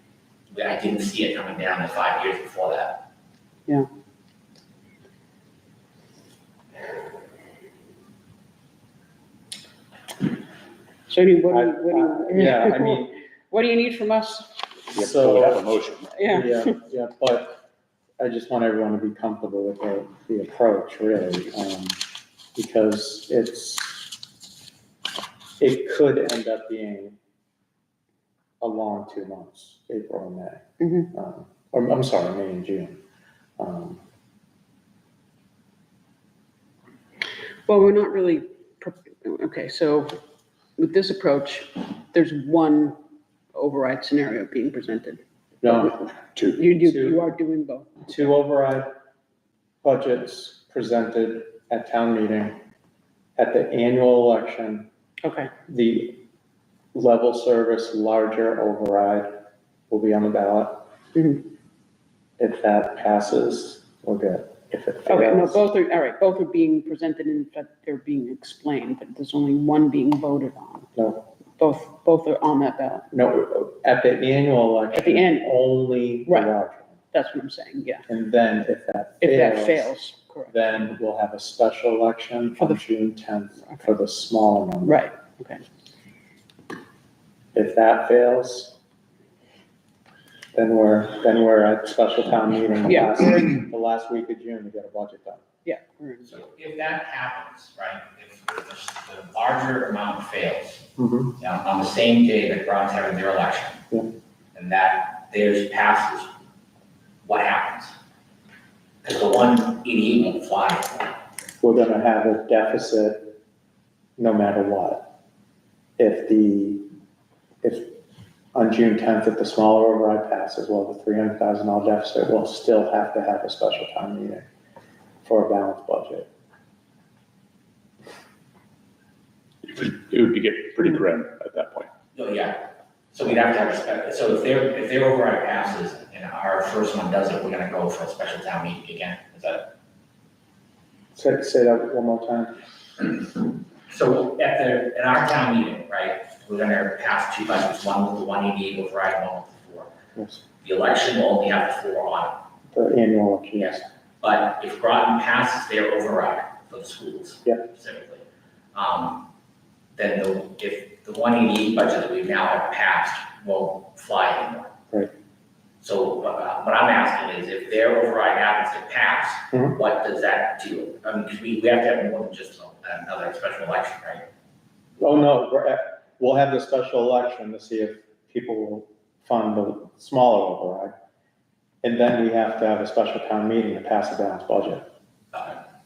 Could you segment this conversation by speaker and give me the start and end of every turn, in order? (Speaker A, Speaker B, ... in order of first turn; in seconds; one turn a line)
Speaker A: 0.5-3.0
Speaker B: 11.1-14.6
Speaker C: 11.5-13.1
Speaker C: 14.9-15.6
Speaker D: 14.9-16.2
Speaker B: 16.1-16.7
Speaker C: 16.3-17.6
Speaker C: 18.2-22.0
Speaker C: 22.6-24.1
Speaker C: 25.6-27.2
Speaker C: 28.6-33.0
Speaker B: 30.8-31.1
Speaker C: 33.6-34.0
Speaker B: 37.7-40.2
Speaker B: 40.8-43.0
Speaker B: 43.5-45.8
Speaker C: 45.6-46.0
Speaker D: 46.0-46.7
Speaker B: 46.6-48.2
Speaker C: 46.8-47.2
Speaker C: 48.1-48.9
Speaker C: 49.8-52.6
Speaker C: 53.4-54.9
Speaker B: 55.2-55.5
Speaker C: 55.7-56.2
Speaker C: 56.9-59.4
Speaker C: 59.9-60.9
Speaker B: 61.1-61.4
Speaker C: 62.4-65.6
Speaker B: 65.1-70.9
Speaker C: 71.0-71.2
Speaker B: 71.6-73.1
Speaker C: 73.1-77.0
Speaker B: 74.9-75.5
Speaker B: 77.1-78.1
Speaker C: 78.1-79.9
Speaker B: 79.2-80.7
Speaker C: 80.5-85.0
Speaker B: 84.8-85.6
Speaker C: 87.5-88.8
Speaker C: 90.5-95.5
Speaker B: 92.9-93.3
Speaker B: 95.7-96.4
Speaker A: 96.3-103.8
Speaker C: 101.0-101.3
Speaker A: 104.5-106.3
Speaker A: 107.2-108.0
Speaker A: 109.0-111.1
Speaker C: 111.6-113.3
Speaker C: 114.2-115.1
Speaker C: 116.0-116.9
Speaker C: 117.6-118.0
Speaker C: 118.5-124.5
Speaker C: 125.2-126.3
Speaker D: 129.7-131.9
Speaker A: 132.2-132.6
Speaker A: 133.1-139.7
Speaker C: 141.2-142.5
Speaker A: 143.9-149.9
Speaker C: 150.2-150.4
Speaker A: 150.6-152.4
Speaker C: 152.7-153.9
Speaker A: 153.6-159.2
Speaker A: 160.0-164.7
Speaker A: 165.8-174.3
Speaker C: 175.0-180.9
Speaker C: 181.8-184.8